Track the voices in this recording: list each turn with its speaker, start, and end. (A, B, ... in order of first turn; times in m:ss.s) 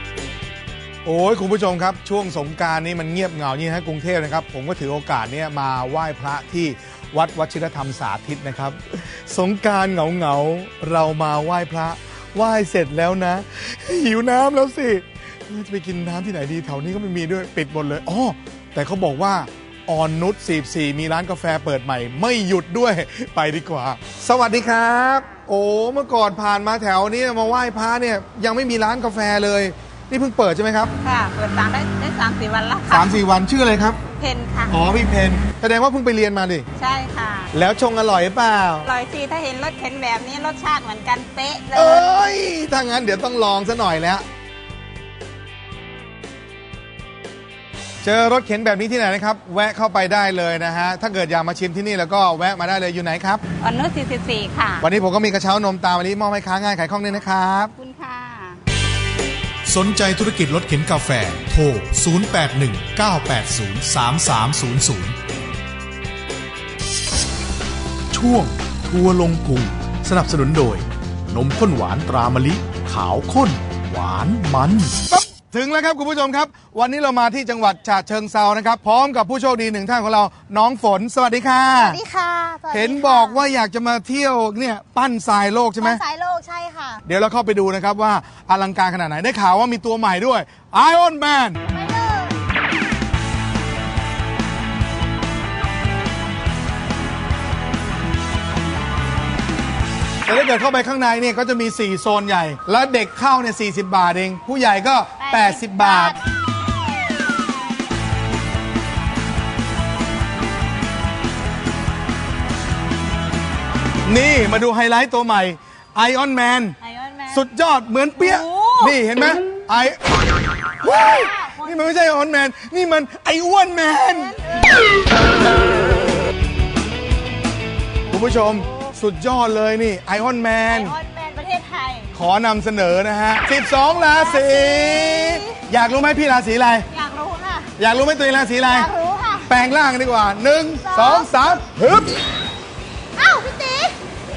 0:01.0-0:30.9 A
0:31.0-0:33.2 B
0:32.9-0:34.0 A
0:34.2-0:34.8 B
0:34.7-0:36.7 A
0:36.8-0:37.5 B
0:37.5-0:38.9 A
0:38.8-0:42.0 B
0:41.7-0:44.2 A
0:48.0-0:53.4 A
0:53.6-0:54.8 B
0:54.8-0:57.7 A
0:57.8-0:58.6 B
0:59.7-1:05.2 C
1:08.1-1:15.0 C
1:15.1-1:22.0 A
1:21.8-1:23.4 D
1:22.7-1:26.0 A
1:25.8-1:27.0 D
1:27.0-1:31.6 A
1:31.7-1:32.4 D
1:40.3-1:46.2 A
1:45.3-1:46.1 B
1:54.0-1:56.8 A
1:56.8-1:57.4 B
1:57.3-2:00.2 A
1:58.2-1:59.0 B
2:00.8-2:04.4 A
2:00.8-2:01.7 B
2:04.4-2:04.8 D
2:08.1-2:11.0 A
2:10.7-2:12.1 B
2:12.1-2:16.9 A
2:14.4-2:15.6 D
2:16.9-2:17.7 B
2:17.8-2:18.9 A
2:18.7-2:19.2 D
2:19.0-2:19.4 B
2:19.5-2:22.2 A
2:20.8-2:21.3 D
2:23.2-2:24.0 D